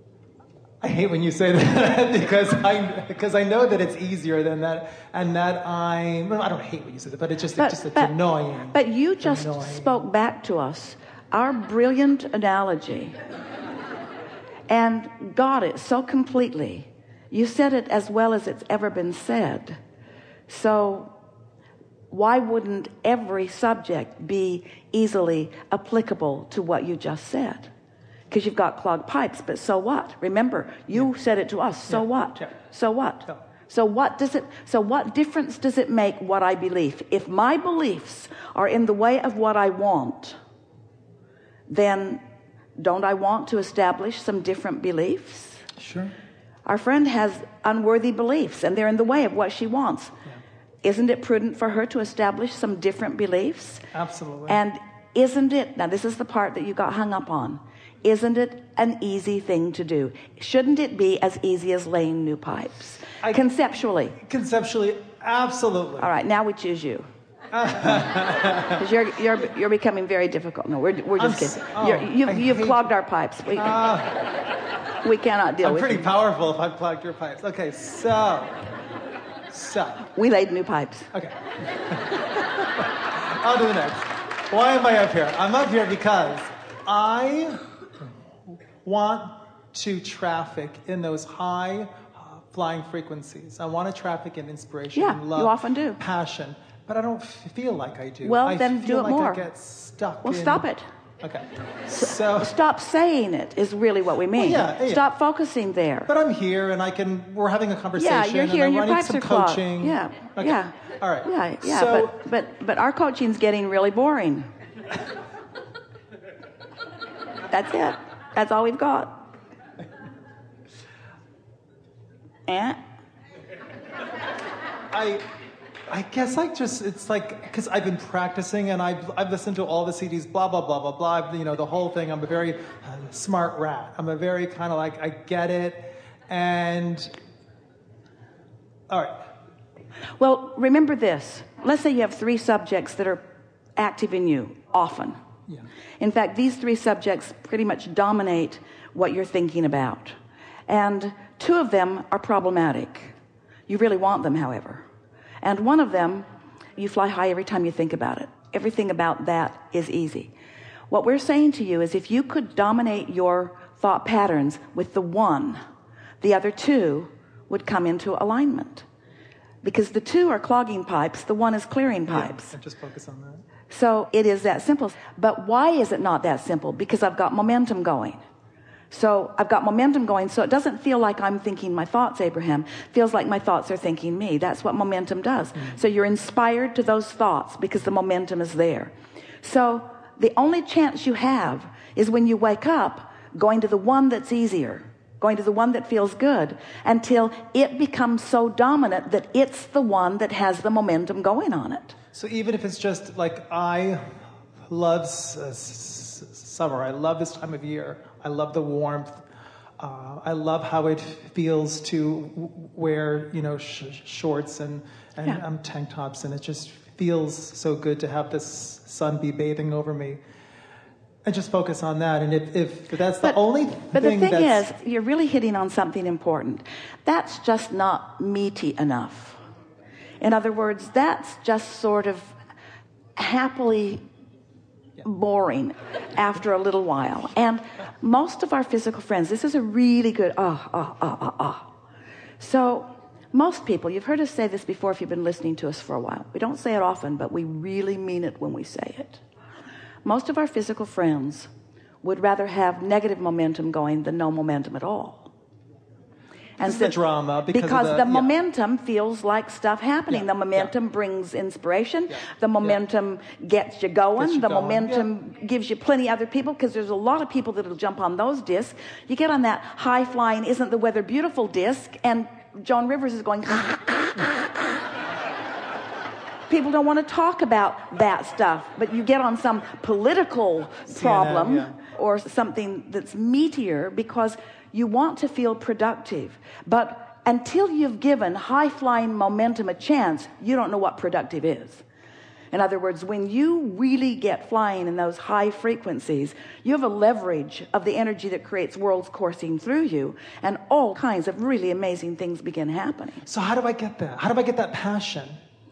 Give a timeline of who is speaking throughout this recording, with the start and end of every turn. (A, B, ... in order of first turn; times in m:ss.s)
0:00.8-0:10.0 A
0:07.6-0:08.2 B
0:08.7-0:13.2 B
0:14.7-0:19.8 B
0:20.5-0:21.1 B
0:22.1-0:27.7 B
0:28.3-0:40.4 B
0:31.9-0:32.5 A
0:41.7-0:42.2 B
0:42.8-0:45.7 B
0:45.8-0:46.1 A
0:46.6-0:50.1 B
0:50.8-0:53.9 B
0:53.9-0:54.6 A
0:54.5-1:04.2 B
1:04.2-1:06.1 A
1:06.0-1:07.1 B
1:07.5-1:08.8 A
1:08.7-1:13.8 B
1:11.2-1:12.9 A
1:13.5-1:14.3 A
1:15.0-1:16.1 B
1:15.6-1:18.6 A
1:19.5-1:20.1 A
1:20.2-1:21.1 B
1:21.1-1:27.6 A
1:28.7-1:40.7 A
1:34.9-1:36.0 B
1:38.2-1:39.5 B
1:40.2-1:40.8 B
1:41.2-1:42.5 A
1:42.0-1:46.1 B
1:44.3-1:45.0 A
1:46.1-1:52.2 A
1:48.0-1:54.5 B
1:57.5-1:59.2 B
2:02.5-2:02.8 B
2:04.9-2:05.3 A
2:05.9-2:17.1 A
2:18.9-2:19.2 A
2:20.2-2:23.2 B
2:23.8-2:25.2 B
2:26.0-2:30.2 B
2:30.7-2:33.2 B
2:33.7-2:34.9 B
2:35.4-2:36.3 B
2:36.8-2:40.3 B
2:40.9-2:45.6 B
2:46.2-2:48.9 B
2:49.6-2:52.6 B
2:52.1-2:53.4 A
2:53.7-2:58.2 B
2:58.9-3:22.0 B
3:22.1-3:29.2 A
3:29.8-3:40.2 A
3:41.3-3:44.6 A
3:43.9-3:49.4 B
3:50.2-3:52.4 B
3:53.2-3:54.0 B
3:55.0-4:01.7 B
4:02.4-4:09.2 B
4:10.0-4:11.5 B
4:12.0-4:15.3 B
4:16.6-4:34.5 B
4:16.6-4:18.3 A
4:20.1-4:20.7 A
4:24.2-4:25.1 A
4:36.5-4:51.8 B
4:40.9-4:41.8 A
4:52.5-5:03.2 B
5:03.3-5:05.4 A